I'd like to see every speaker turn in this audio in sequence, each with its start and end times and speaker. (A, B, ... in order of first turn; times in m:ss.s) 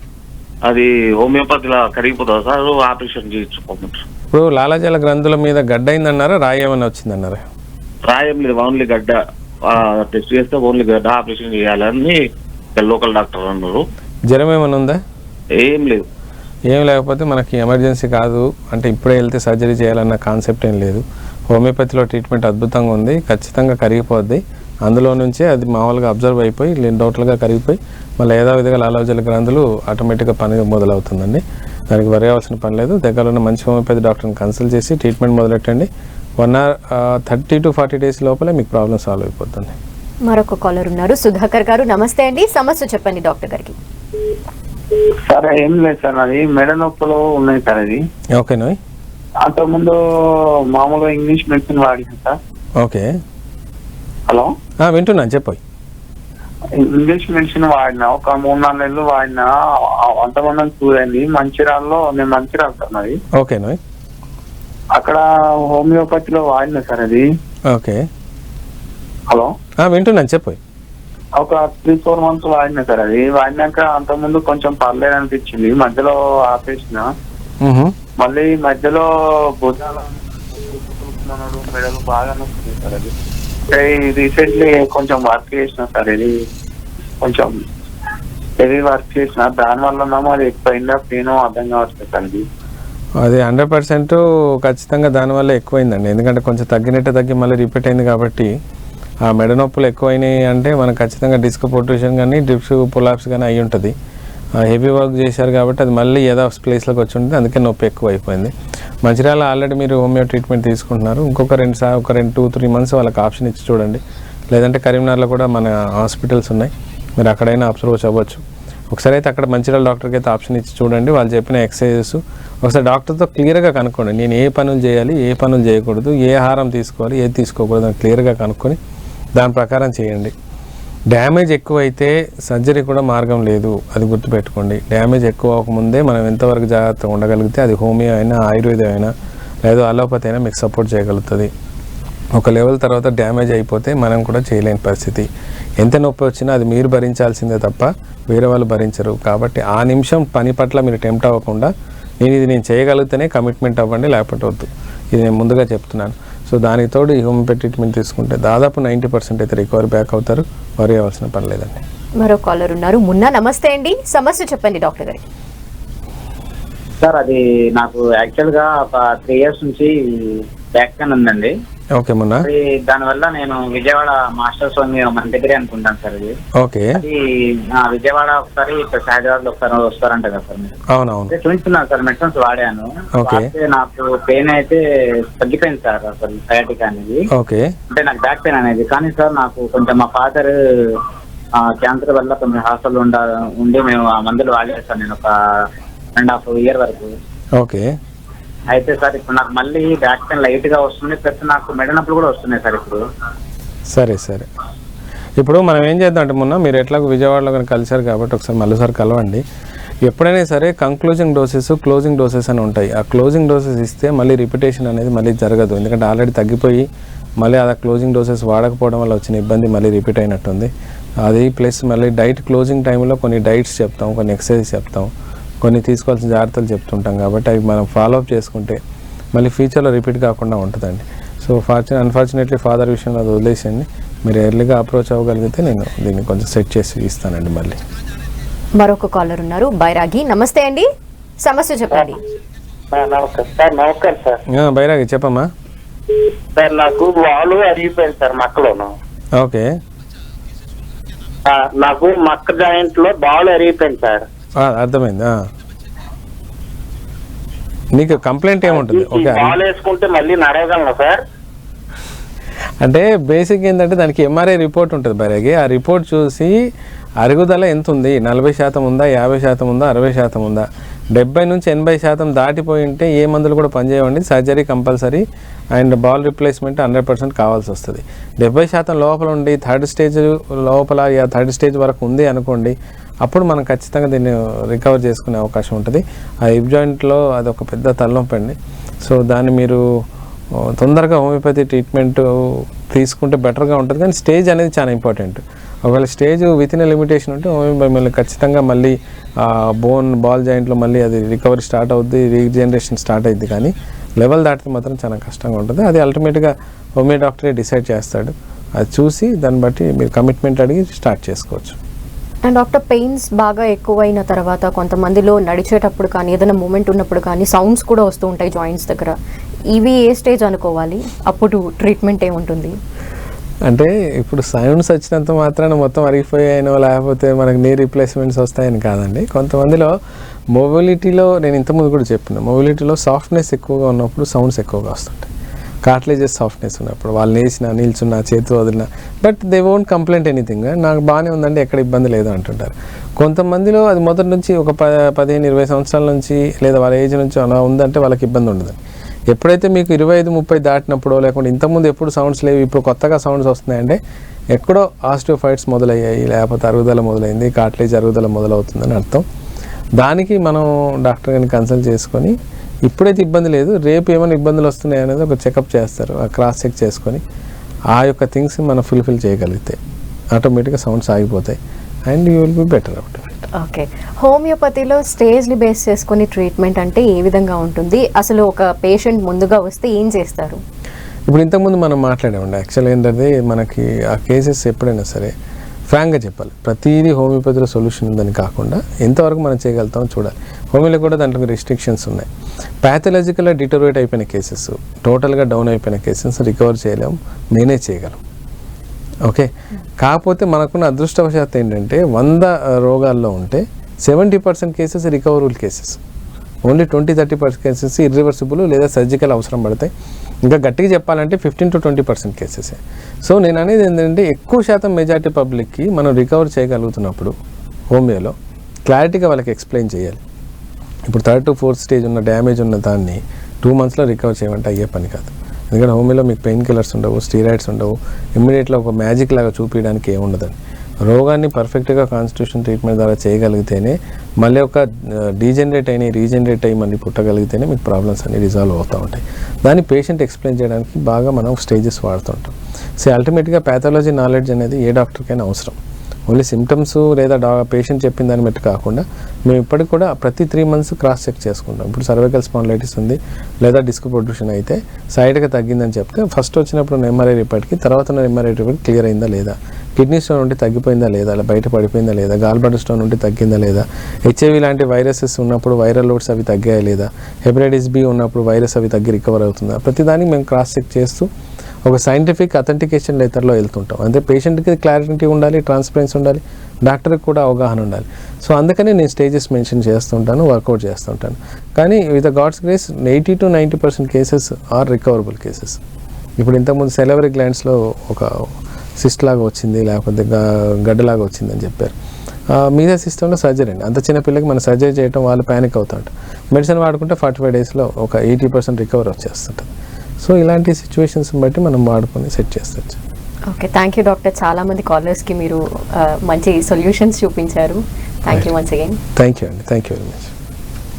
0:00.6-0:04.0 A
0:04.3-0:07.4 B
0:08.0-0:13.8 A
0:14.3-0:15.0 B
0:15.6-0:16.0 A
0:16.7-0:39.8 B
0:40.2-0:43.8 C
0:45.3-0:48.0 D
0:48.4-0:48.8 B
0:49.4-0:50.0 D
0:50.7-0:52.4 D
0:52.8-0:53.1 B
0:54.8-0:55.6 B
0:56.7-1:03.2 D
1:03.4-1:03.8 B
1:04.9-1:07.2 D
1:07.7-1:08.1 B
1:09.8-1:10.6 B
1:11.4-1:17.1 D
1:17.6-1:18.0 B
1:18.2-1:19.0 D
1:19.6-1:23.1 D
1:23.7-1:26.3 D
1:27.2-1:27.6 D
1:28.6-1:32.4 D
1:33.2-1:38.5 B
1:39.2-1:43.9 B
1:44.6-2:08.8 B
2:09.4-2:10.3 B
2:11.1-2:19.1 B
2:19.6-2:21.5 B
2:22.4-2:25.3 B
2:25.8-2:41.8 B
2:42.2-2:45.2 C
2:47.0-2:51.5 E
2:52.0-2:52.5 B
2:52.4-2:56.3 E
2:56.6-2:57.0 B
2:57.0-3:00.7 E
3:00.9-3:01.3 B
3:01.3-3:07.2 E
3:03.1-3:03.5 B
3:07.3-3:07.7 B
3:07.9-3:11.0 E
3:11.6-3:17.1 E
3:17.6-3:17.9 B
3:18.7-3:23.0 E
3:23.9-3:24.5 B
3:25.4-3:29.4 B
3:30.0-3:36.9 B
3:37.4-3:40.7 B
3:41.2-3:45.1 B
3:45.6-3:48.8 B
3:49.3-3:57.8 B
3:58.8-4:00.9 C
4:01.4-4:02.2 C
4:02.9-4:04.4 F
4:04.5-4:05.5 B
4:06.6-4:08.9 F
4:09.4-4:09.7 B
4:11.5-4:14.2 F
4:14.6-4:15.4 B
4:17.9-4:19.6 B
4:18.7-4:21.2 F
4:22.8-4:26.6 B
4:27.2-4:49.8 B
4:50.6-5:11.8 B
5:12.4-5:19.2 C
5:19.7-5:22.7 C
5:23.6-5:29.9 B
5:30.5-5:35.3 B
5:35.8-5:48.8 B
5:49.3-5:54.0 B
5:54.5-5:59.2 B
6:00.0-6:07.2 B
6:07.9-6:09.8 B
6:10.3-6:13.5 B
6:13.5-6:20.6 C
6:21.3-6:25.3 B
6:25.9-6:32.3 B
6:32.8-6:38.2 B
6:39.2-6:46.0 B
6:46.6-6:49.9 B
6:50.4-6:57.3 B
6:57.9-7:00.2 B
7:01.1-7:51.3 B
7:51.8-8:05.8 B
8:06.4-8:11.9 B
8:12.5-8:19.7 B
8:20.2-8:23.0 B
8:23.5-8:29.0 C
8:29.1-8:30.3 B